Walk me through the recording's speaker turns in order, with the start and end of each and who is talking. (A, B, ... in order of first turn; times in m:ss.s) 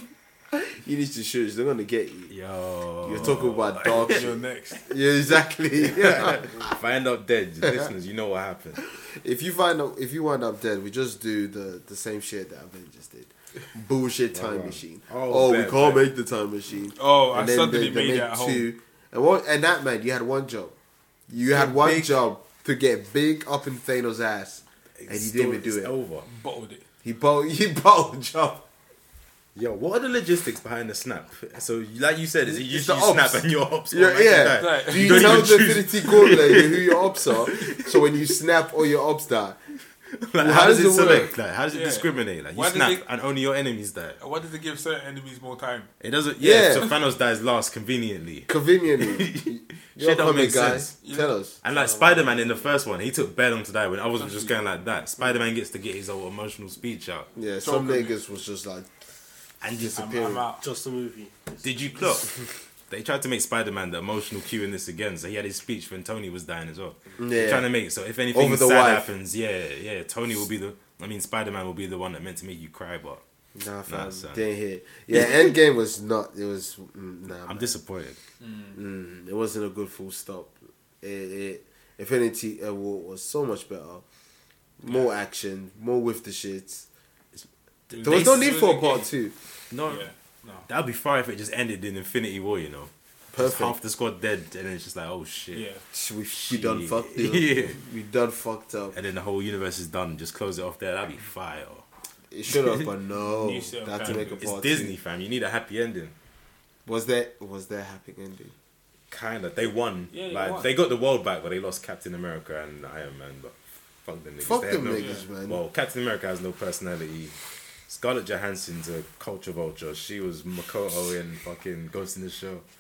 0:00.5-0:02.3 A
0:02.3-0:04.2 B
0:03.0-0:04.3 A
0:03.8-0:04.9 C
0:04.9-0:06.6 A
0:05.8-0:08.8 B
0:08.8-0:20.8 A
0:14.3-0:16.1 B
0:17.0-0:18.7 C
0:21.3-0:25.9 A
0:21.4-0:22.2 B
0:25.0-0:26.3 B
0:26.2-0:26.8 C
0:27.0-0:28.7 A
0:29.6-0:38.0 B
0:32.5-0:39.6 A
0:34.5-0:35.6 C
0:40.1-0:44.2 B
0:40.4-0:41.3 A
0:41.7-0:43.0 C
0:44.2-0:45.9 C
0:46.0-0:50.9 B
0:46.4-0:46.9 A
0:48.5-0:51.6 A
0:51.0-0:51.3 C
0:51.6-0:57.3 B
0:51.7-0:52.7 D
0:54.2-0:54.6 C
0:57.4-0:58.9 A
0:57.6-0:58.2 C
0:59.6-1:00.0 B
0:59.8-1:00.5 A
0:59.9-1:00.6 C
1:00.6-1:01.7 D
1:01.6-1:02.3 B
1:02.9-1:13.2 B
1:07.2-1:07.7 A
1:08.3-1:09.1 A
1:13.5-1:17.8 A
1:13.9-1:14.4 B
1:17.5-1:18.2 B
1:18.4-1:18.8 C
1:18.7-1:24.0 A
1:24.8-1:26.9 A
1:24.9-1:25.1 C
1:27.4-1:28.3 B
1:27.9-1:29.1 C
1:28.0-1:29.3 A
1:29.7-1:30.1 B
1:29.9-1:30.7 C
1:30.7-1:35.6 B
1:33.3-1:33.8 A
1:35.5-1:35.8 C
1:35.9-1:39.0 A
1:36.3-1:37.8 B
1:38.9-1:41.8 B
1:42.3-1:45.0 A
1:43.3-1:44.4 C
1:44.0-1:46.1 B
1:46.9-1:48.5 A
1:49.1-1:53.5 B
1:50.1-1:50.7 C
1:54.0-1:57.4 B
1:54.4-1:55.6 A
1:54.9-1:55.3 C
1:57.9-2:02.6 B